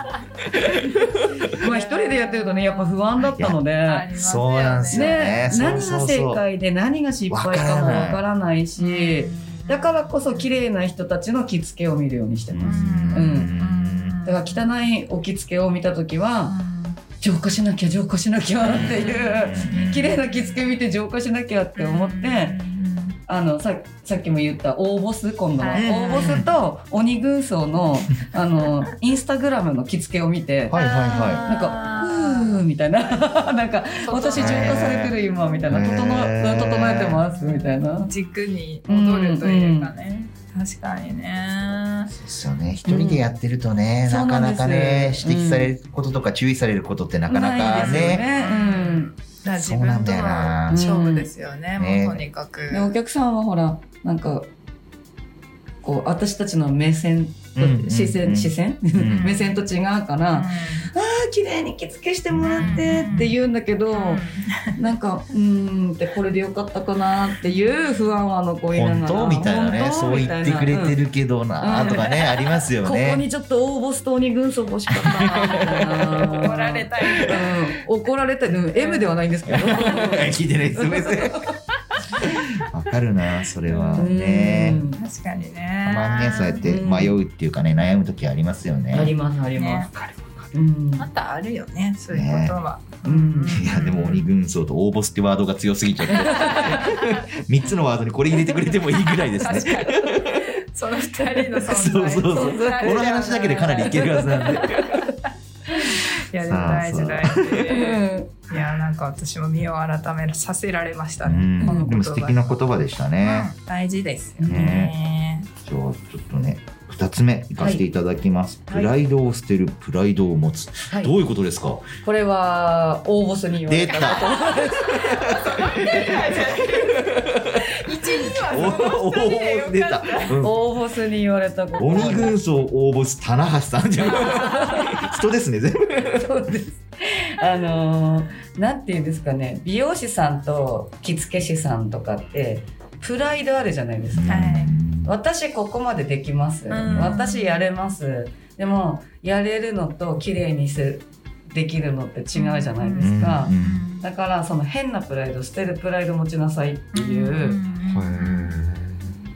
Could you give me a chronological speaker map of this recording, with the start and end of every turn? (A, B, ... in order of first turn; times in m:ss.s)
0:00.5-0:01.5 A
0:01.5-0:03.1 B
0:01.5-0:04.1 C
0:03.2-0:03.6 A
0:03.8-0:05.9 B
0:04.1-0:06.4 A
0:04.9-0:13.5 C
0:07.3-0:08.2 A
0:08.8-0:10.5 B
0:12.5-0:14.2 A
0:12.6-0:14.7 B
0:14.2-0:16.6 C
0:16.5-0:17.0 B
0:17.2-0:22.6 C
0:18.7-0:20.1 A
0:18.8-0:20.6 B
0:21.8-0:23.2 B
0:23.3-0:30.8 C
0:25.6-0:26.5 B
0:25.8-0:26.5 A
0:30.7-0:31.5 A
0:30.7-0:32.6 B
0:31.4-0:38.1 C
0:33.2-0:35.8 B
0:34.4-0:35.2 A
0:35.7-0:37.2 A
0:37.2-0:42.1 B
0:38.9-0:39.9 C
0:42.1-0:48.3 A
0:42.8-0:43.2 C
0:44.1-0:45.7 C
0:47.3-0:49.1 C
0:47.7-0:52.9 B
0:49.6-0:50.8 A
0:50.7-0:51.3 C
0:51.8-0:52.2 A
0:52.7-0:54.5 C
0:55.8-1:11.0 C
0:57.6-0:59.4 A
0:59.2-0:59.5 B
1:00.3-1:00.9 B
1:02.3-1:03.3 A
1:02.4-1:03.4 B
1:03.9-1:04.8 B
1:08.7-1:13.2 A
1:11.6-1:12.2 C
1:12.8-1:21.5 C
1:15.0-1:16.4 A
1:15.2-1:17.6 B
1:17.1-1:17.4 A
1:18.8-1:19.1 B
1:19.5-1:21.4 A
1:22.6-1:24.8 A
1:23.7-1:24.1 B
1:24.0-1:25.0 C
1:24.9-1:26.6 B
1:25.8-1:29.1 A
1:26.6-1:27.2 C
1:28.9-1:29.9 C
1:29.6-1:29.9 B
1:30.5-1:31.1 C
1:31.0-1:34.3 B
1:32.1-1:32.6 A
1:33.0-1:33.6 C
1:33.5-1:40.5 A
1:36.1-1:36.6 C
1:36.5-1:37.2 B
1:39.4-1:52.5 B
1:41.6-1:45.1 A
1:42.3-1:43.1 C
1:43.8-1:44.5 C
1:46.4-1:47.6 A
1:47.7-1:48.3 C
1:51.2-1:53.5 A
1:51.6-1:51.9 C
1:53.2-1:55.5 B
1:54.4-1:54.9 A
1:54.4-1:54.8 C
1:55.6-2:02.0 A
1:57.6-1:57.8 C
1:58.7-1:58.9 C
2:02.0-2:05.2 C
2:03.7-2:07.6 A
2:03.9-2:10.4 B
2:08.2-2:10.6 A
2:10.4-2:12.4 C
2:11.8-2:16.3 A
2:14.2-2:14.7 B
2:14.4-2:14.9 C
2:16.2-2:24.4 C
2:24.1-2:25.1 A
2:24.3-2:24.7 B
2:25.0-2:37.6 C
2:26.7-2:27.6 B
2:26.9-2:27.1 A
2:32.4-2:34.1 B
2:33.0-2:33.8 A
2:36.9-2:38.6 B
2:37.9-2:39.1 A